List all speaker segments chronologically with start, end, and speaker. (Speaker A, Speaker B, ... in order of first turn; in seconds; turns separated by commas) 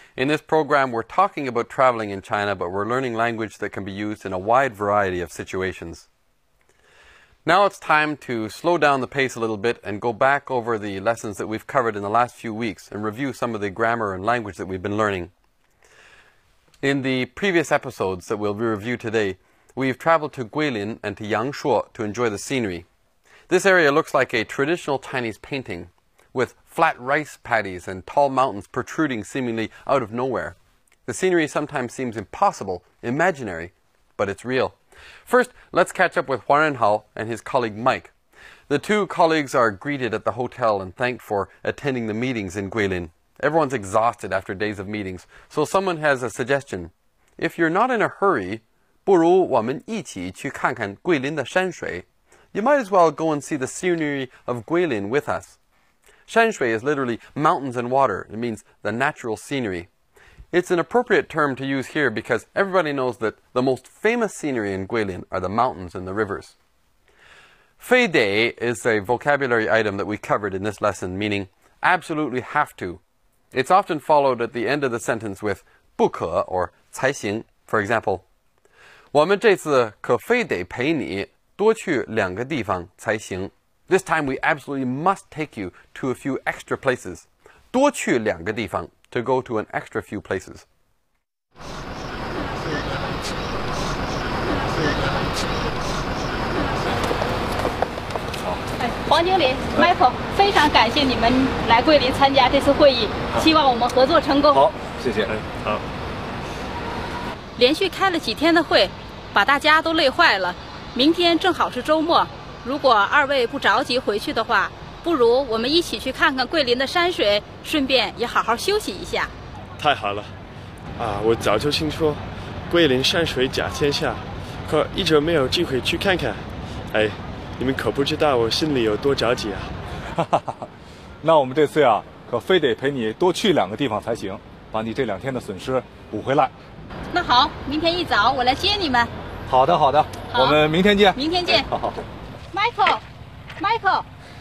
Speaker A: 0.2-6.1, Speaker A: 7.5-15.3, Speaker A: 16.8-22.9, Speaker A: 23.5-38.1, Speaker A: 38.7-55.6, Speaker A: 56.3-59.9, Speaker A: 60.5-66.5, Speaker A: 67.8-73.0, Speaker A: 73.5-78.2, Speaker A: 79.1-90.7, Speaker B: 98.8-104.6, Speaker C: 104.5-105.3, Speaker D: 105.2-105.8, Speaker B: 107.6-119.3, Speaker D: 119.8-120.3, Speaker D: 121.0-129.7, Speaker C: 130.1-130.7, Speaker C: 131.2-136.5, Speaker B: 137.1-139.1, Speaker C: 139.5-142.0, Speaker B: 140.3-140.6, Speaker B: 141.2-141.7, Speaker B: 142.5-143.0, Speaker B: 143.6-144.1